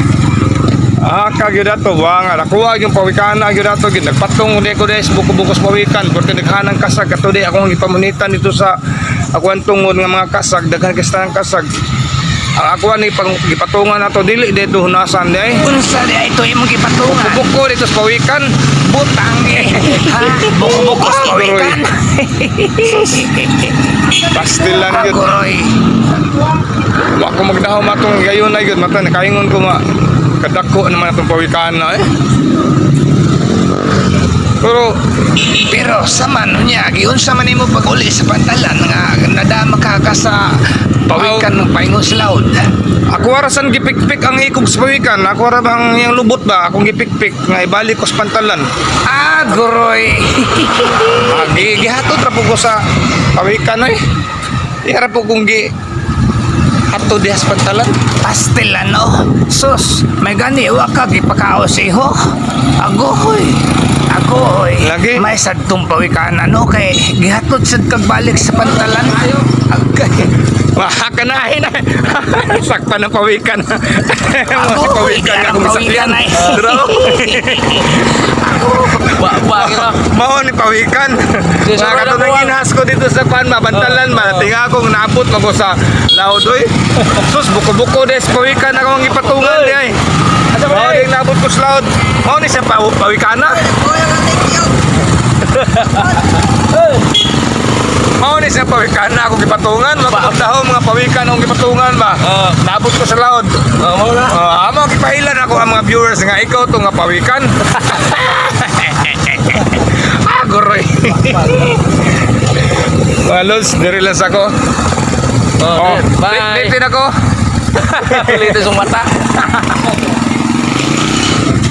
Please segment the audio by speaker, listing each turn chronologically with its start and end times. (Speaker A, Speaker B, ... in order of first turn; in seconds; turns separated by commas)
Speaker A: 1.0-8.8, Speaker A: 9.3-11.7, Speaker A: 12.6-15.6, Speaker B: 15.6-17.5, Speaker A: 17.1-18.5, Speaker B: 18.9-23.8, Speaker A: 19.6-21.8, Speaker A: 24.3-25.3, Speaker B: 24.9-25.8, Speaker A: 27.2-29.8, Speaker A: 30.4-32.1, Speaker A: 34.6-34.9, Speaker B: 35.4-40.5, Speaker B: 41.1-42.6, Speaker A: 41.1-41.5, Speaker A: 43.1-48.6, Speaker B: 49.1-51.7, Speaker A: 51.3-52.8, Speaker A: 53.4-54.0, Speaker A: 54.8-55.7, Speaker A: 56.9-58.0, Speaker B: 58.2-62.2, Speaker B: 62.8-70.3, Speaker A: 64.8-65.3, Speaker A: 70.8-78.1, Speaker B: 74.5-79.1, Speaker C: 76.4-76.7, Speaker A: 78.8-90.0, Speaker C: 79.0-80.0, Speaker C: 81.6-82.6, Speaker C: 83.7-84.5, Speaker C: 89.4-89.8, Speaker C: 90.5-91.1, Speaker A: 90.6-93.8, Speaker B: 94.0-94.5, Speaker C: 95.5-97.0, Speaker A: 98.2-103.7, Speaker C: 100.1-100.4, Speaker C: 102.2-102.6, Speaker C: 103.8-104.4, Speaker A: 104.3-114.5, Speaker C: 115.6-116.8, Speaker A: 115.7-117.1, Speaker C: 117.7-120.0, Speaker A: 118.0-118.6